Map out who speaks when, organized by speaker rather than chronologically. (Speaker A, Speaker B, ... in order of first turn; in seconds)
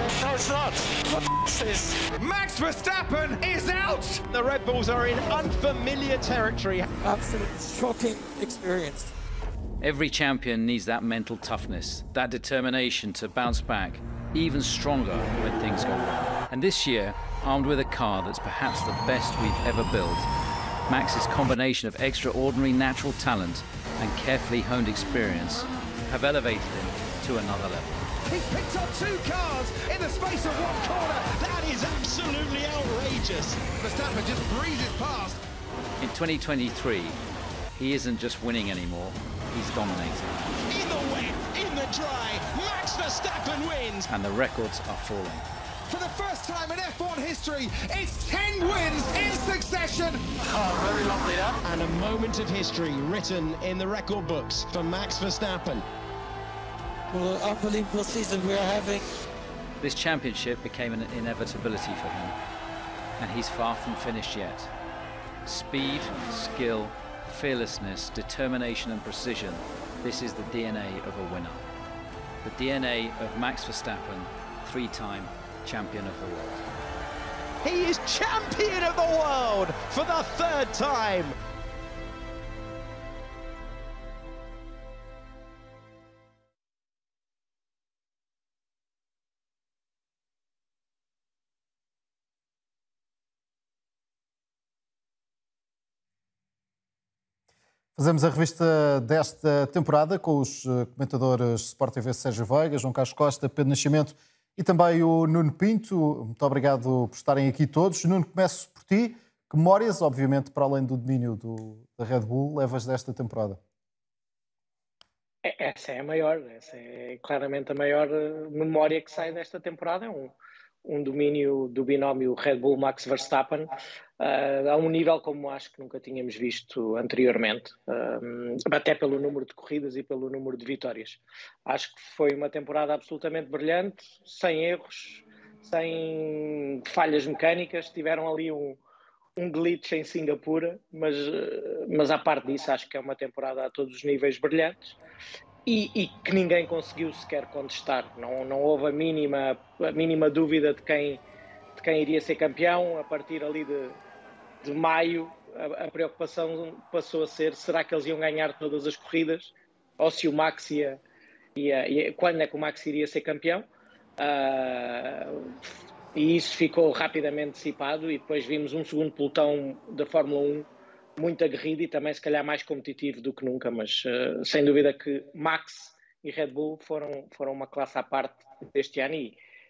Speaker A: 0.1-2.0, 7.0-9.1, 50.5-51.4, 57.1-59.1
Speaker B: 2.1-4.3, 28.3-31.3, 33.7-35.4, 45.9-50.2
Speaker C: 4.3-6.9, 31.2-33.6, 40.7-44.1, 51.6-55.8, 77.6-81.3
Speaker D: 9.8-20.3, 20.9-28.1, 36.0-37.2, 37.8-40.6, 44.1-45.5, 59.8-62.4, 63.2-64.7, 65.4-71.7, 72.4-76.6
Speaker E: 98.0-113.6
Speaker F: 115.4-138.8, 139.4-145.0, 145.7-151.2, 151.8-154.0, 154.6-161.0, 161.6-163.7, 164.2-179.4